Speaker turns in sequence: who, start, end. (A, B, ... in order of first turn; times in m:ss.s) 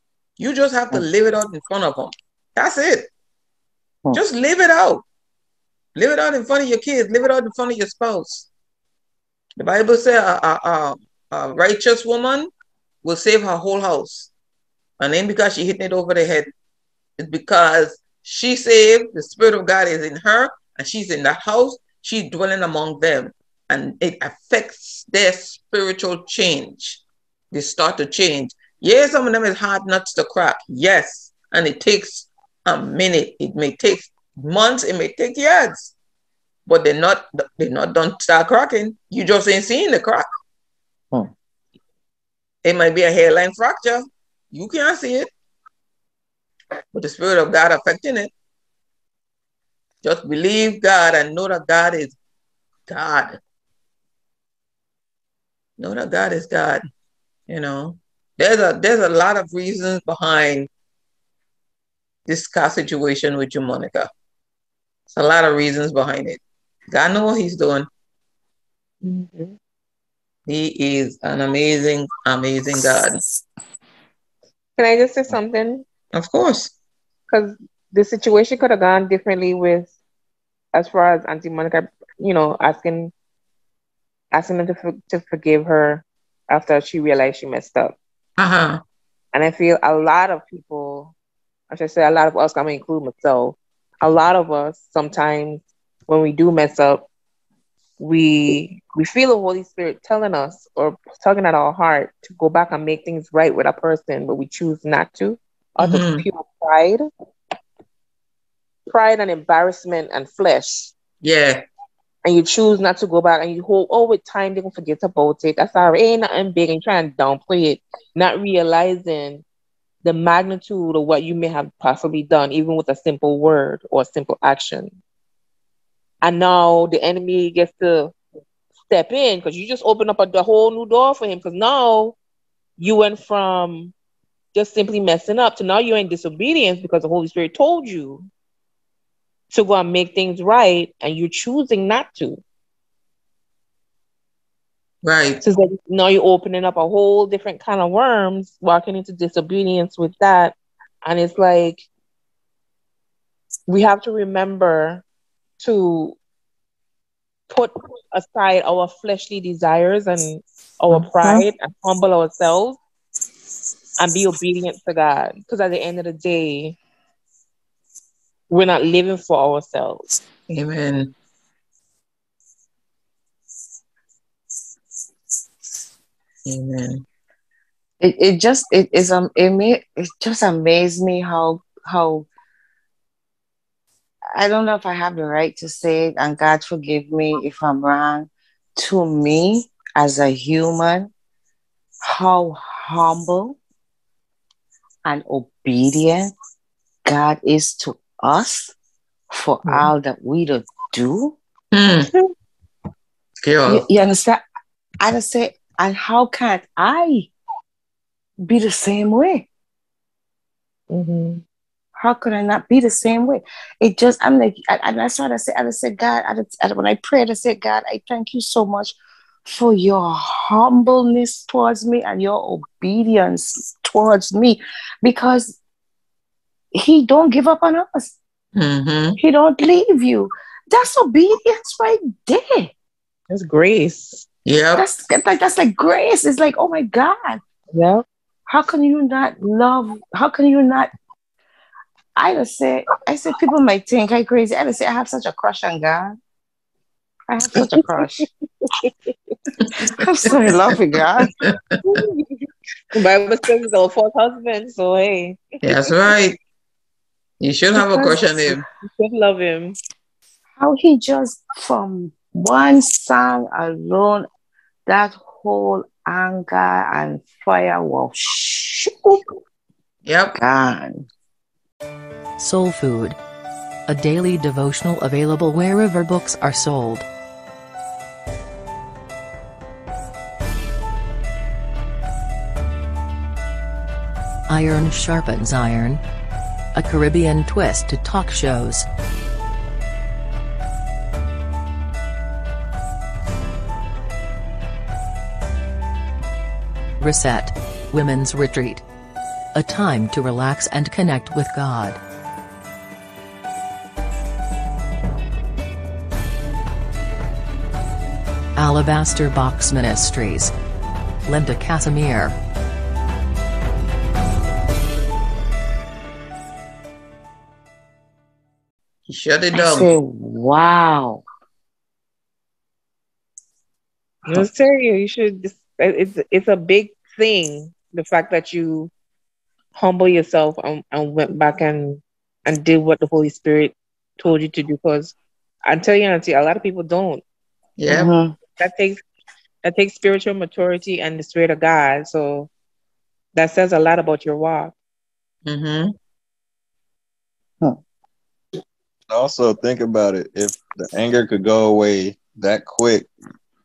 0:00.4-0:03.1 A
0:04.1-0:05.0 A
0:06.0-0:08.5 A
0:09.6-0:12.5 A
0:13.0-0:14.3 A
0:15.0-0:16.5 A
0:17.2-0:35.9 A
0:36.7-0:40.3 A
0:42.6-0:45.3 A
0:46.9-0:48.3 A
0:50.0-0:52.2 A
0:52.9-0:53.4 A
0:55.8-0:56.8 A
0:57.5-1:00.7 A
1:02.3-1:04.1 A
1:05.1-1:07.9 A
1:09.0-1:09.6 B
1:10.5-1:13.2 A
1:14.8-1:15.8 B
1:16.1-1:16.7 A
1:17.3-1:19.9 B
1:20.7-1:23.1 B
1:24.3-1:28.0 B
1:28.4-1:28.8 A
1:29.3-1:31.1 B
1:31.7-1:37.1 B
1:38.0-1:47.1 B
1:45.8-1:46.2 A
1:48.9-1:50.9 B
1:51.2-1:51.6 A
1:52.2-1:59.4 B
2:00.0-2:05.0 B
2:06.2-2:08.1 B
2:08.9-2:12.2 B
2:12.8-2:13.9 B
2:14.5-2:18.3 B
2:19.5-2:22.4 B
2:25.0-2:25.4 A
2:25.4-2:31.9 B
2:33.7-2:35.0 B
2:35.6-2:36.2 B
2:37.5-2:42.8 B
2:41.0-2:41.4 C
2:44.0-2:46.8 B
2:48.5-2:50.1 B
2:50.5-2:51.1 A
2:56.5-2:57.0 A
2:58.0-3:02.3 C
3:04.3-3:11.1 C
3:12.0-3:13.6 C
3:15.0-3:16.3 C
3:17.1-3:18.7 C
3:19.3-3:21.4 C
3:21.7-3:22.1 A
3:23.4-3:23.9 A
3:23.7-3:24.4 C
3:25.0-3:27.3 C
3:28.4-3:29.5 C
3:30.9-3:31.4 B
3:32.0-3:39.0 C
3:39.5-3:45.6 C
3:46.7-3:48.2 C
3:48.6-3:49.2 A
3:49.2-3:52.7 C
3:53.3-3:54.2 B
3:54.5-3:54.9 A
3:54.8-3:57.4 C
3:57.7-3:58.0 B
3:58.5-4:00.9 C
4:02.2-4:06.2 C
4:07.3-4:08.3 C
4:07.7-4:09.1 B
4:09.6-4:10.0 A
4:09.9-4:11.3 C
4:11.3-4:11.6 A
4:11.8-4:15.9 B
4:15.6-4:16.4 A
4:17.4-4:18.6 A
4:17.8-4:19.8 B
4:20.6-4:24.3 C
4:24.9-4:29.2 C
4:30.0-4:30.4 A
4:30.4-4:31.0 C
4:32.4-4:33.2 D
4:33.9-4:37.0 D
4:44.5-4:46.0 D
4:46.8-4:48.8 D
4:57.0-4:58.8 D
4:59.6-5:02.0 D
5:08.6-5:10.5 D
5:11.3-5:12.4 D
5:19.1-5:19.9 A
5:19.5-5:21.2 C
5:24.3-5:28.9 B
5:29.8-5:35.1 B
5:35.7-5:37.2 B
5:37.8-5:38.1 A
5:37.9-5:38.3 C
5:38.6-5:39.0 B
5:39.6-5:42.5 B
5:43.4-5:44.7 B
5:45.4-5:45.9 A
5:49.1-5:53.1 E